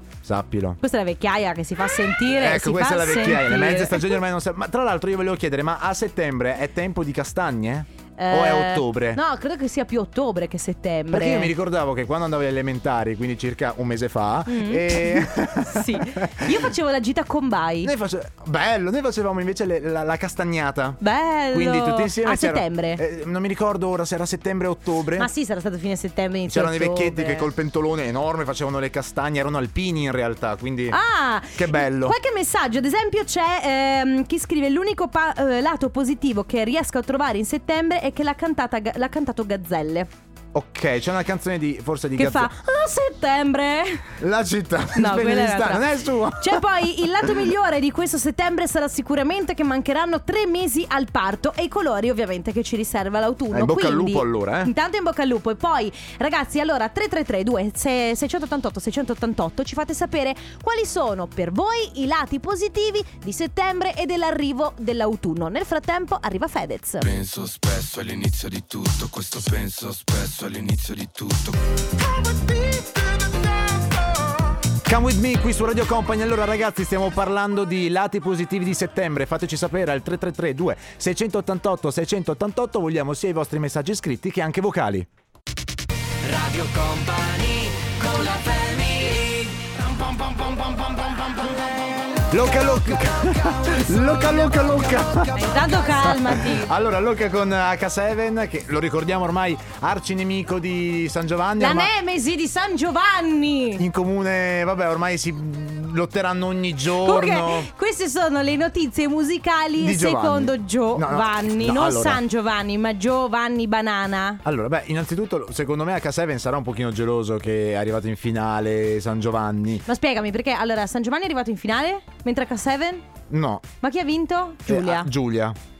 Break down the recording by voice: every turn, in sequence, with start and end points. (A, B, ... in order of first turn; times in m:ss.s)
0:00.2-0:00.8 A
0:00.8-0:04.2 B
0:02.2-0:09.2 A
0:08.2-0:11.5 B
0:11.1-0:16.6 A
0:14.5-0:17.9 B
0:17.8-0:25.3 A
0:21.0-0:23.0 B
0:25.2-0:27.5 B
0:26.5-0:31.0 A
0:30.9-0:40.1 B
0:31.5-0:32.2 A
0:40.5-0:42.5 A
0:42.2-0:44.1 B
0:44.2-0:46.6 A
0:44.9-1:07.1 B
0:53.5-0:54.7 A
1:07.1-1:11.3 C
1:12.2-1:13.0 A
1:14.8-1:25.1 A
1:26.2-1:32.2 D
1:32.3-1:35.4 A
1:33.4-1:33.7 D
1:35.4-1:36.6 B
1:36.0-1:41.9 A
1:41.6-1:43.8 B
1:43.8-1:47.7 A
1:46.9-1:54.4 B
1:49.8-1:52.2 A
1:54.4-1:59.8 A
1:59.8-2:03.0 B
2:03.3-2:03.6 A
2:03.8-2:05.1 B
2:04.7-2:05.6 A